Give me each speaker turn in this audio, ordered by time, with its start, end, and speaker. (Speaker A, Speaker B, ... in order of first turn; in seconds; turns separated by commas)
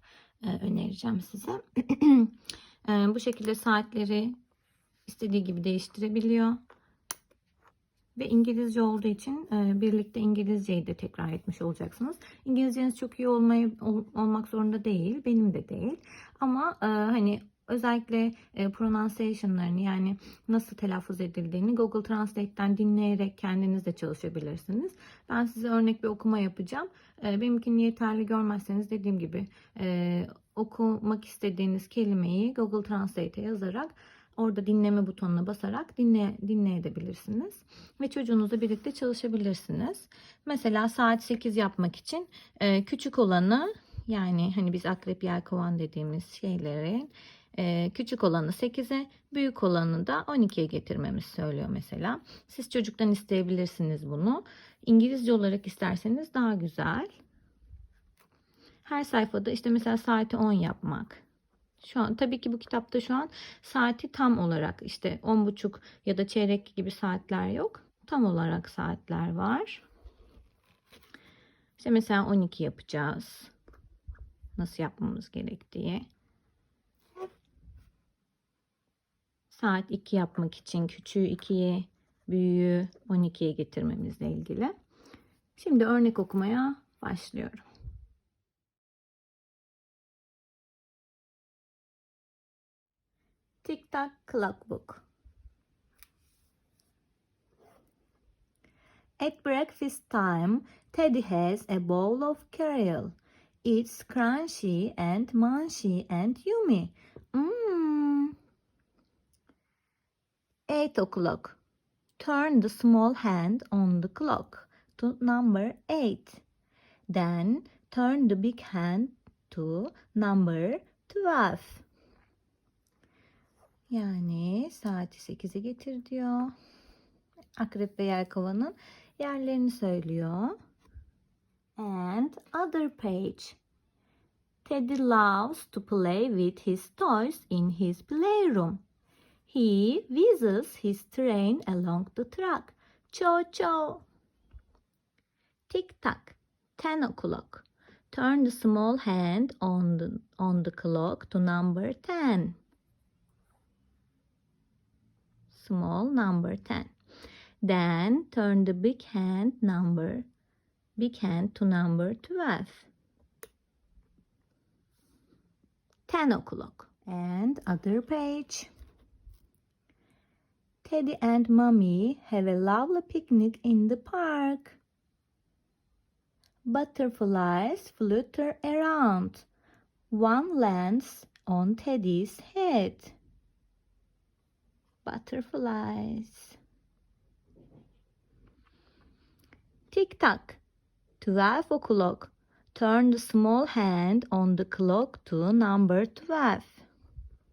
Speaker A: 0.4-4.3, Speaker A: 5.0-6.6, Speaker A: 8.2-57.1, Speaker A: 58.8-61.2, Speaker A: 61.8-69.8, Speaker A: 71.8-73.5, Speaker A: 74.6-76.0, Speaker A: 79.5-84.7, Speaker A: 85.5-87.6, Speaker A: 93.6-95.0, Speaker A: 99.2-108.3, Speaker A: 110.7-111.6, Speaker A: 112.2-116.4, Speaker A: 117.1-121.8, Speaker A: 123.9-126.5, Speaker A: 127.6-130.6, Speaker A: 131.8-133.6, Speaker A: 134.6-138.8, Speaker A: 139.5-144.0, Speaker A: 145.7-152.6, Speaker A: 155.5-156.9, Speaker A: 157.6-160.3, Speaker A: 161.0-162.9, Speaker A: 166.1-168.7, Speaker A: 170.8-174.8, Speaker A: 176.7-179.5, Speaker A: 180.1-183.1, Speaker A: 185.0-186.6, Speaker A: 189.9-190.6, Speaker A: 191.2-196.8